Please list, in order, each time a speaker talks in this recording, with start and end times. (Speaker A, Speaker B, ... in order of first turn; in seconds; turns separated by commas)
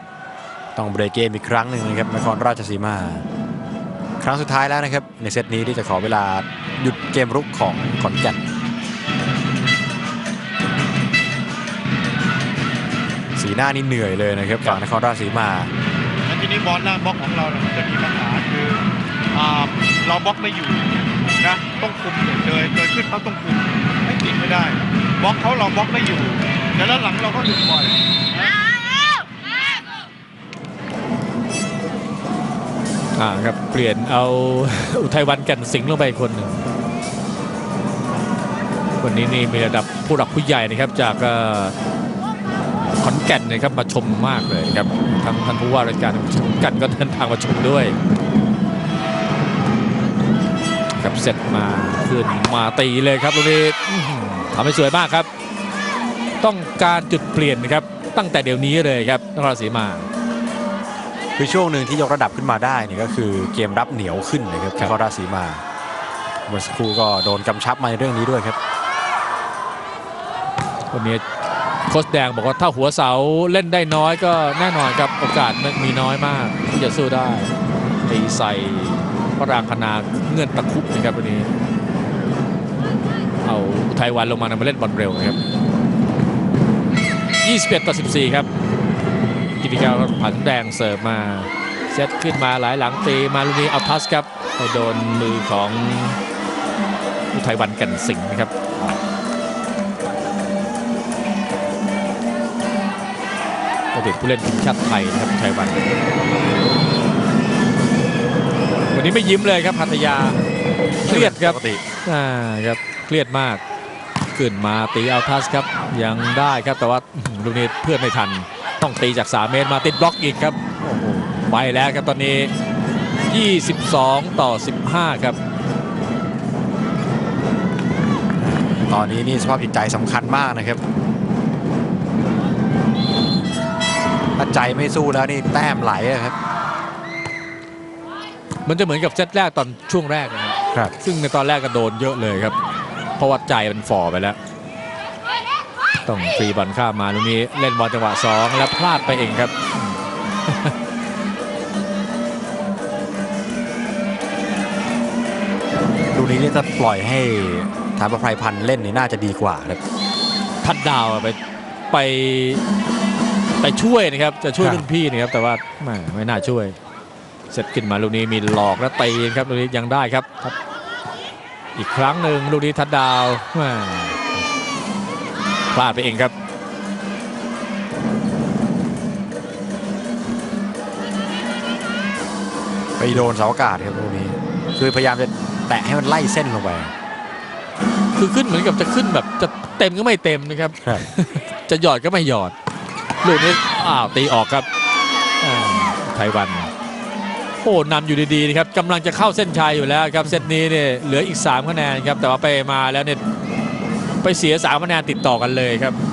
Speaker A: 0.8-3.2, Speaker A: 4.2-8.4, Speaker A: 13.4-15.7, Speaker B: 16.2-18.8, Speaker B: 19.3-28.5, Speaker C: 33.2-36.7, Speaker C: 39.0-41.8, Speaker C: 42.8-48.0, Speaker C: 51.0-55.3, Speaker C: 56.4-60.1, Speaker A: 61.4-65.6, Speaker A: 66.5-68.6, Speaker C: 70.9-71.2, Speaker C: 71.9-77.5, Speaker C: 78.1-81.5, Speaker C: 83.4-85.4, Speaker C: 87.4-88.5, Speaker C: 89.6-96.2, Speaker C: 97.3-98.9, Speaker C: 103.9-105.9, Speaker C: 108.9-110.5, Speaker A: 111.0-111.8, Speaker C: 111.0-113.6, Speaker C: 114.3-122.5, Speaker C: 123.3-125.4, Speaker A: 128.4-130.8, Speaker A: 134.4-136.4, Speaker C: 138.7-142.6, Speaker C: 143.2-144.4, Speaker C: 146.1-150.8, Speaker A: 156.1-159.8, Speaker C: 160.6-161.4, Speaker C: 161.9-162.6, Speaker C: 163.6-166.8, Speaker A: 164.6-164.9, Speaker C: 167.5-170.6, Speaker C: 171.8-174.2, Speaker C: 175.7-176.3, Speaker A: 183.0-186.9, Speaker C: 188.2-192.5, Speaker C: 193.2-194.7, Speaker C: 195.4-196.7, Speaker C: 197.6-203.2, Speaker C: 204.2-206.0